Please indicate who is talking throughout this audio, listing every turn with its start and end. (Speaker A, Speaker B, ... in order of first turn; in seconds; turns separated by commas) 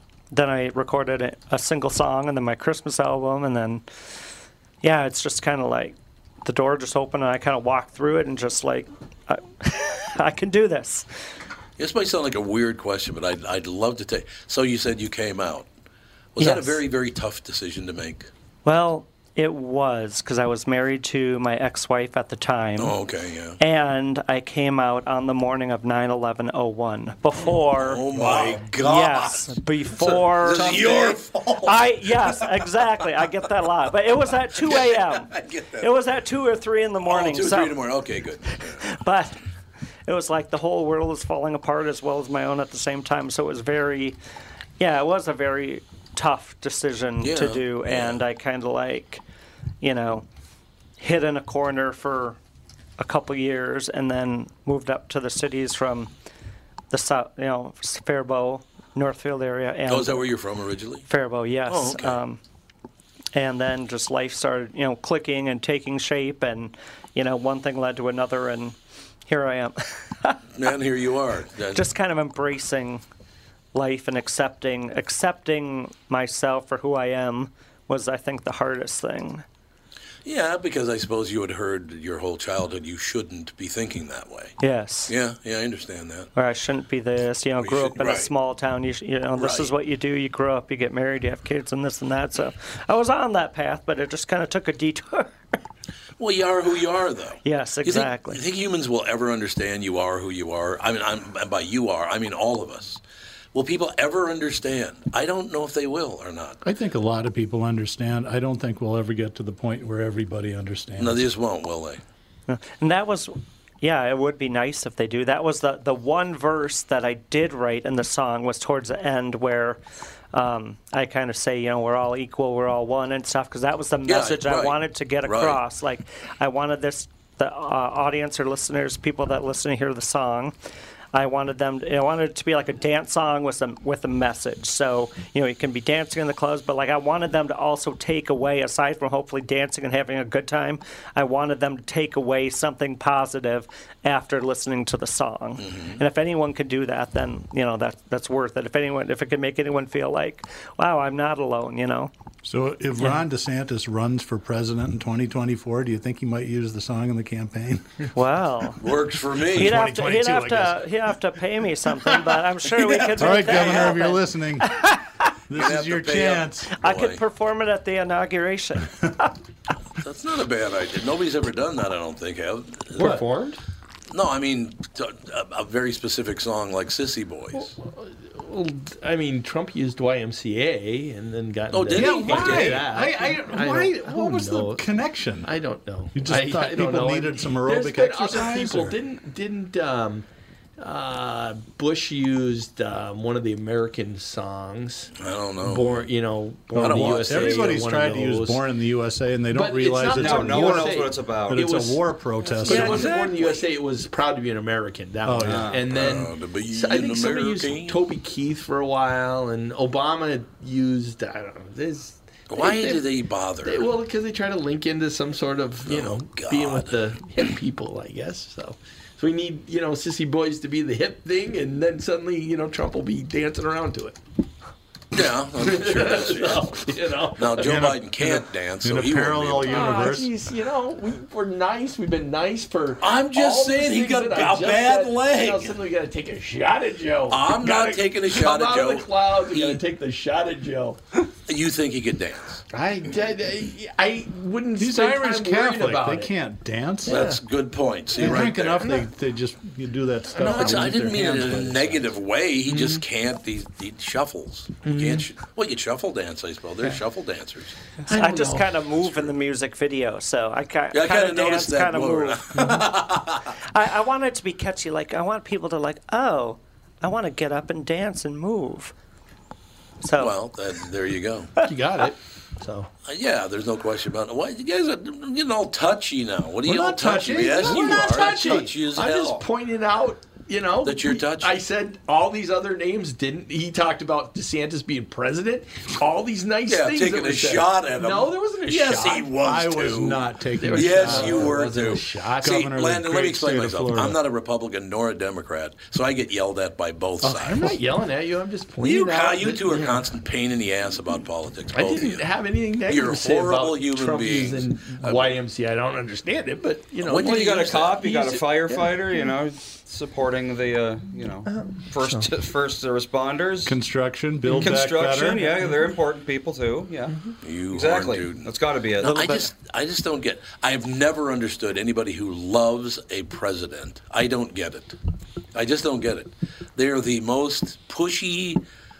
Speaker A: 0.3-3.8, Speaker A: 4.8-11.1, Speaker B: 11.8-15.7, Speaker B: 16.4-18.3, Speaker A: 16.4-16.8, Speaker A: 18.6-22.9, Speaker B: 22.8-23.6, Speaker A: 23.6-37.8, Speaker B: 27.7-29.5, Speaker B: 30.4-32.8, Speaker B: 34.6-35.9, Speaker B: 37.0-39.0, Speaker A: 38.8-39.4, Speaker A: 40.1-44.2, Speaker A: 44.8-49.2, Speaker B: 47.2-48.2, Speaker A: 49.8-50.2, Speaker A: 51.0-52.4, Speaker A: 53.0-56.1, Speaker A: 56.9-60.2, Speaker B: 59.9-61.1, Speaker A: 61.1-62.4, Speaker B: 61.7-62.2, Speaker A: 63.3-68.8, Speaker A: 69.3-70.4, Speaker B: 70.5-71.8, Speaker A: 71.7-73.0, Speaker A: 73.7-79.4, Speaker B: 80.2-84.6, Speaker A: 84.6-85.1, Speaker B: 85.1-86.3, Speaker A: 86.3-95.3, Speaker B: 87.6-88.3, Speaker B: 89.4-89.7, Speaker B: 96.2-103.0, Speaker A: 97.4-98.4, Speaker B: 103.5-106.6, Speaker C: 106.6-111.2, Speaker B: 111.0-112.0, Speaker A: 112.5-119.8, Speaker A: 120.3-130.5, Speaker B: 124.1-125.6, Speaker A: 131.1-152.1, Speaker B: 145.6-146.0, Speaker C: 152.4-157.9, Speaker A: 158.1-158.8, Speaker B: 158.8-159.8, Speaker C: 159.5-161.1, Speaker A: 159.5-165.3, Speaker C: 162.0-164.8, Speaker B: 163.0-164.0, Speaker C: 165.5-166.7, Speaker B: 165.5-167.2, Speaker A: 166.8-169.3, Speaker B: 170.0-173.2, Speaker D: 173.0-173.6, Speaker B: 174.1-177.7, Speaker D: 177.6-184.8, Speaker B: 181.7-182.9, Speaker C: 181.9-185.5, Speaker D: 185.4-190.2, Speaker C: 186.1-188.9, Speaker D: 190.8-198.6, Speaker B: 195.2-196.1, Speaker C: 196.7-203.1, Speaker B: 196.7-197.8, Speaker D: 199.5-202.0, Speaker E: 200.1-201.7, Speaker D: 202.6-213.0, Speaker B: 202.6-203.7, Speaker C: 205.2-205.8, Speaker E: 205.4-205.8, Speaker B: 205.9-208.0, Speaker B: 212.5-213.9, Speaker D: 213.6-224.2, Speaker B: 215.8-217.4, Speaker B: 225.1-230.1, Speaker D: 225.6-227.9, Speaker C: 227.6-230.3, Speaker D: 229.6-241.0, Speaker B: 233.0-235.8, Speaker B: 237.3-239.8, Speaker B: 241.5-242.6, Speaker D: 242.7-246.3, Speaker C: 244.8-247.3, Speaker D: 247.0-247.4, Speaker B: 247.1-249.0, Speaker C: 248.2-252.0, Speaker D: 248.2-248.9, Speaker D: 250.3-252.0, Speaker B: 250.4-257.8, Speaker D: 252.7-253.0, Speaker D: 254.8-255.3, Speaker D: 258.1-258.7, Speaker A: 258.1-262.6, Speaker B: 260.9-263.6, Speaker A: 263.7-268.9, Speaker A: 270.0-270.3, Speaker B: 270.2-271.5, Speaker D: 271.6-272.9, Speaker B: 273.0-279.4, Speaker C: 276.6-278.7, Speaker D: 277.4-289.3, Speaker B: 280.8-281.6, Speaker B: 286.7-297.8, Speaker C: 289.4-294.2, Speaker D: 290.6-292.6, Speaker D: 297.2-300.0, Speaker B: 298.8-302.2, Speaker D: 301.7-309.3, Speaker B: 302.9-305.4, Speaker B: 307.0-308.4, Speaker E: 307.1-313.7, Speaker D: 311.5-312.3, Speaker C: 313.6-315.6, Speaker E: 314.5-317.1, Speaker B: 317.4-318.5, Speaker E: 317.7-319.2, Speaker A: 319.0-319.5, Speaker B: 319.0-325.0, Speaker B: 325.5-328.6